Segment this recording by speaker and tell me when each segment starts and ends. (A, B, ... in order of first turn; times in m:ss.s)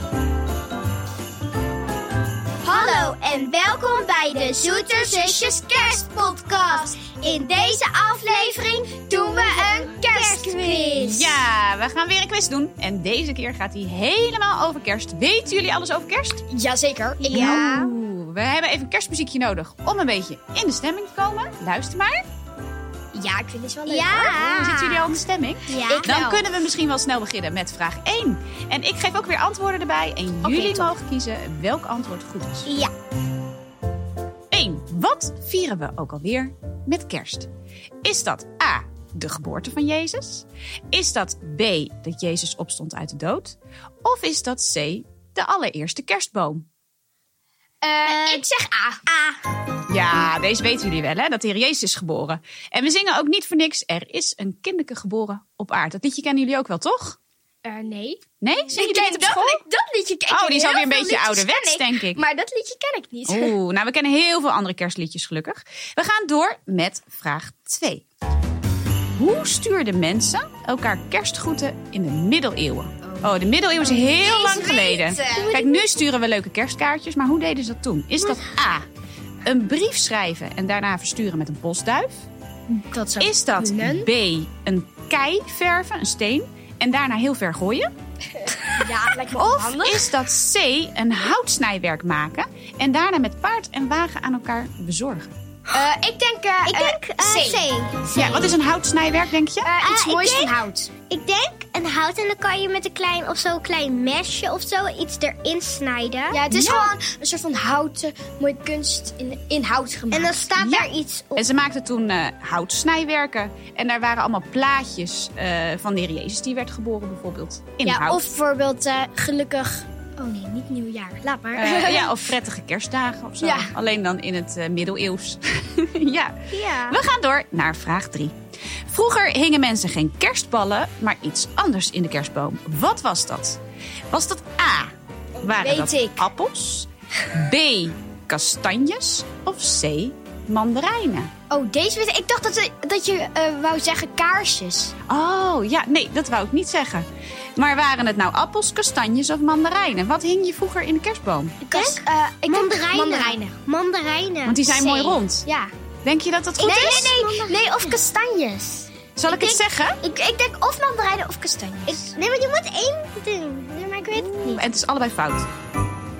0:02.6-0:11.1 A
0:02.7-0:11.4 B
0:11.0-0:16.4 C
0:16.5-0:17.6 A
0:17.2-0:17.9 B
0:17.3-0:22.2 C
0:23.1-0:24.5 A
0:23.9-0:26.1 B
0:24.4-0:32.7 C
0:25.9-0:26.6 A
0:30.4-0:30.9 A
0:32.7-0:32.9 B
0:34.5-0:37.5 C
0:38.0-0:46.6 C
0:47.8-0:49.2 A
0:48.0-0:48.4 B
0:49.9-0:57.2 C
0:57.6-1:03.6 A
0:58.4-0:59.6 C
1:00.3-1:02.2 C
1:03.3-1:08.0 C
1:09.2-1:18.9 C
1:13.0-1:15.9 A
1:19.4-1:22.3 C
1:22.7-1:24.1 A
1:23.2-1:27.9 C
1:28.5-1:30.1 A
1:29.3-1:35.3 C
1:35.7-1:37.7 A
1:36.6-1:38.6 B
1:38.1-1:39.7 C
1:39.6-1:40.9 A
1:39.8-1:40.5 B
1:41.1-1:46.4 B
1:46.3-1:50.4 A
1:46.5-1:46.9 C
1:50.1-1:51.5 B
1:50.6-1:58.2 C
1:57.8-2:02.1 A
2:01.6-2:08.3 C
2:03.4-2:03.7 A
2:06.5-2:07.0 B
2:08.9-2:13.6 C
2:14.1-2:21.3 C
2:15.4-2:16.3 A
2:21.5-2:24.9 A
2:25.1-2:31.6 C
2:31.6-2:33.6 A
2:31.7-2:34.6 B
2:34.4-2:35.5 C
2:34.7-2:35.7 A
2:36.0-2:37.1 C
2:36.6-2:38.0 B
2:36.6-2:42.2 A
2:39.2-2:40.0 C
2:41.9-2:44.6 B
2:43.8-2:44.6 A
2:44.5-2:45.5 C